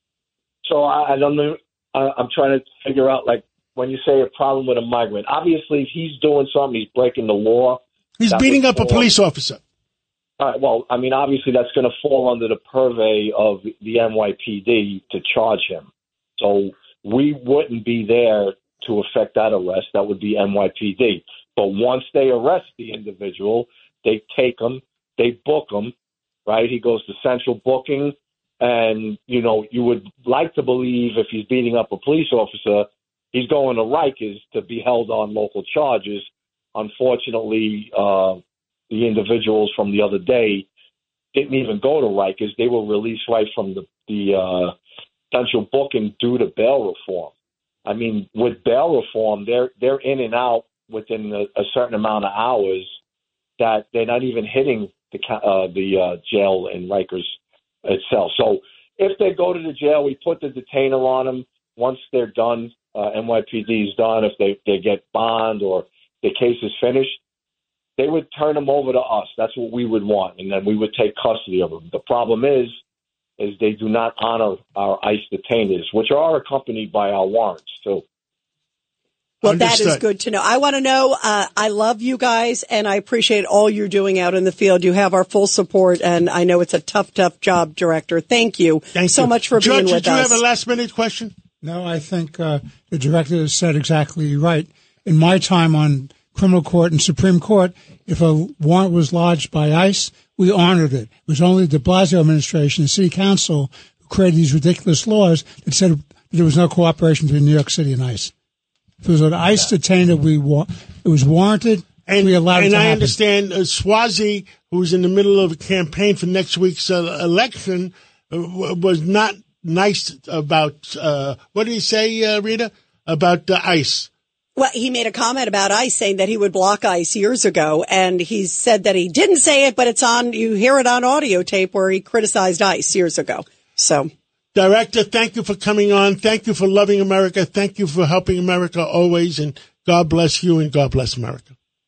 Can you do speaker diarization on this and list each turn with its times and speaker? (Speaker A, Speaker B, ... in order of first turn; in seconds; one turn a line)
Speaker A: 0.6-9.2
Speaker B: 8.2-9.6
Speaker A: 10.4-25.9
Speaker A: 26.5-40.7
Speaker A: 41.3-44.7
Speaker A: 45.3-47.3
Speaker A: 47.9-52.9
Speaker A: 53.6-57.3
Speaker A: 57.8-67.2
Speaker A: 68.0-72.8
Speaker A: 73.4-78.0
Speaker C: 79.4-90.4
Speaker B: 79.4-80.0
Speaker B: 88.9-91.3
Speaker D: 91.6-108.3
Speaker D: 109.0-113.1
Speaker B: 112.0-124.1
Speaker C: 124.5-134.1
Speaker B: 134.5-141.5